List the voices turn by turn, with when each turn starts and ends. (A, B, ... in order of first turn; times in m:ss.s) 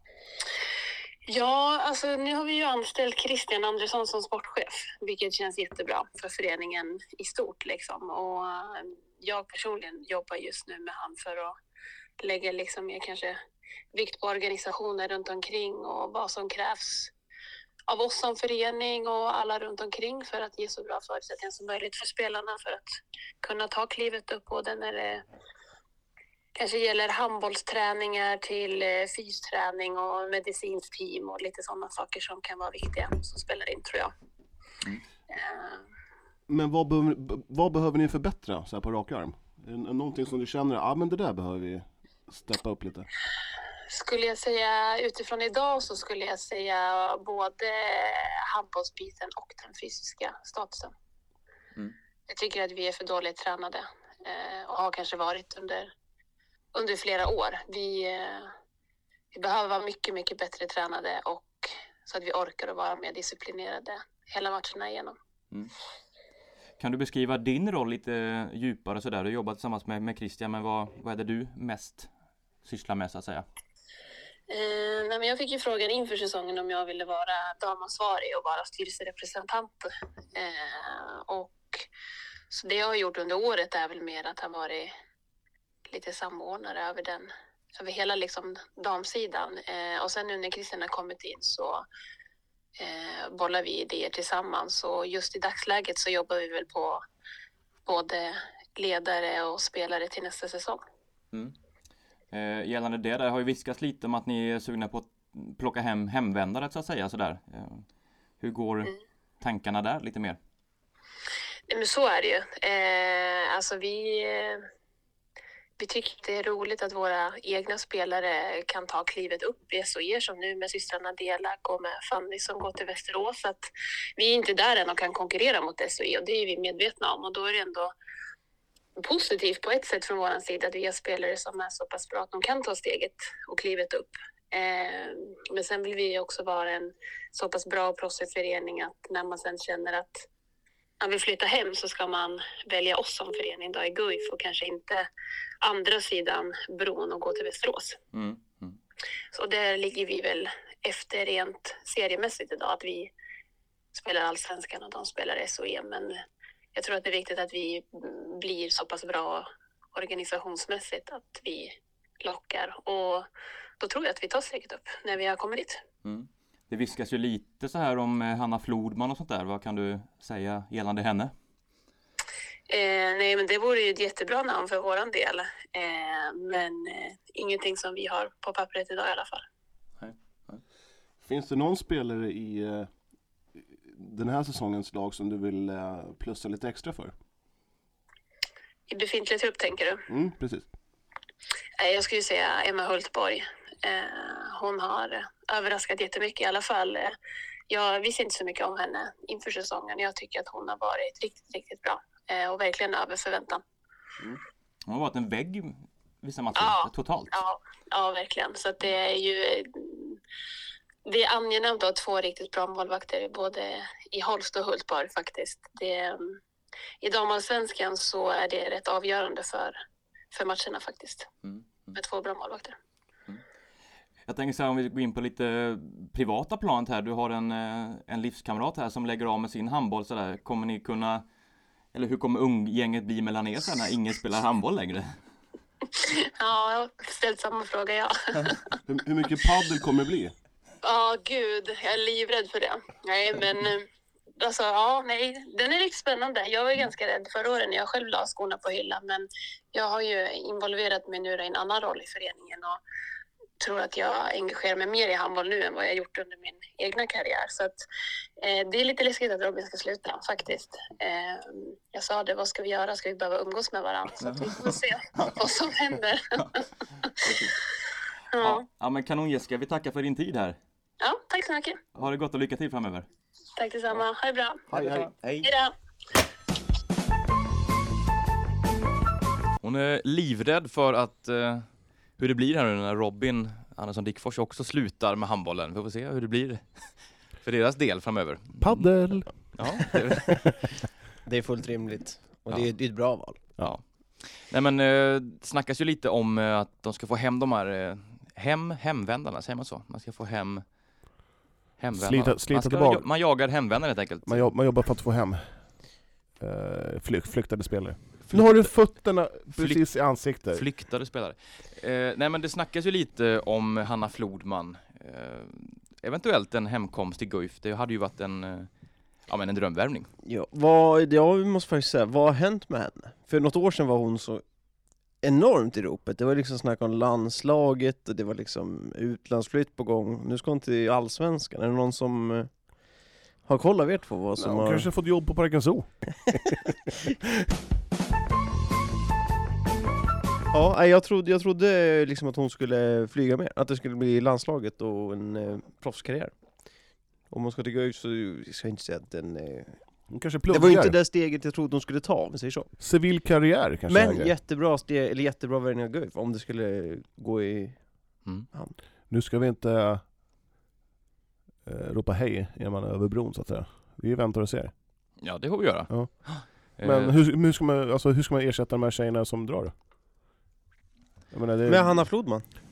0:01.3-0:11.6 A
0:12.2-0:13.4 A
0:13.9-0:17.1 A
0:17.9-0:25.2 A
0:26.6-0:34.1 A
0:35.3-0:35.8 A
0:36.5-0:43.1 B
0:43.9-0:50.9 A
0:52.3-0:55.9 A
0:56.7-0:58.5 A
0:59.3-1:05.2 A
1:06.8-1:12.1 C
1:12.6-1:13.4 C
1:14.5-1:21.8 A
1:22.5-1:24.9 A
1:25.9-1:31.8 A
1:32.8-1:37.0 A
1:37.9-1:40.8 A
1:42.3-1:47.9 C
1:48.4-1:50.4 C
1:51.7-1:54.7 A
1:55.8-2:07.9 A
2:09.0-2:20.2 A
2:21.0-2:25.1 A
2:25.6-2:28.0 A
2:28.1-2:28.8 C
2:29.3-2:33.1 A
2:33.9-2:36.2 A
2:36.7-2:43.3 A
2:43.8-2:45.8 A
2:46.0-2:51.3 C
2:52.7-2:59.4 A
3:00.0-3:00.6 C
3:01.2-3:02.9 B
3:03.6-3:07.1 B
3:08.9-3:10.0 A
3:10.1-3:10.7 B
3:11.8-3:17.1 A
3:17.7-3:23.6 A
3:24.9-3:27.3 C
3:26.6-3:30.2 A
3:31.1-3:36.4 A
3:37.0-3:39.8 A
3:40.3-3:41.3 A
3:41.4-3:42.0 C
3:41.9-3:42.7 A
3:44.3-3:51.2 C
3:51.9-3:55.1 C
3:55.9-3:58.8 A
3:58.9-4:00.3 B
4:00.8-4:12.8 A
4:13.6-4:17.8 A
4:18.4-4:27.1 A
4:24.2-4:25.4 C
4:27.1-4:27.6 C
4:28.3-4:28.6 A
4:28.4-4:30.6 C
4:31.0-4:31.8 A
4:32.0-4:33.1 C
4:33.6-4:34.6 A
4:34.7-4:35.5 C
4:34.8-4:35.1 B
4:35.4-4:35.7 A
4:39.6-4:46.9 C
4:47.4-4:48.9 C
4:48.6-4:50.2 B
4:49.5-4:50.4 C
4:51.2-4:53.4 D
4:53.6-5:00.6 C
5:01.8-5:04.5 C
5:02.0-5:03.0 B
5:04.2-5:05.5 B
5:06.4-5:10.6 B
5:08.2-5:08.9 C
5:09.5-5:20.1 C
5:20.3-5:24.4 D
5:25.2-5:32.5 D
5:33.4-5:34.9 D
5:34.4-5:37.3 B
5:40.5-5:46.3 D
5:47.3-5:49.8 D
5:50.1-5:51.0 B
5:50.5-5:52.7 D
5:52.8-5:54.3 B
5:53.9-5:57.8 D
5:59.1-6:00.0 B
6:01.7-6:04.7 B
6:05.2-6:07.2 C
6:05.9-6:09.7 B
6:11.3-6:12.1 B
6:11.7-6:12.4 D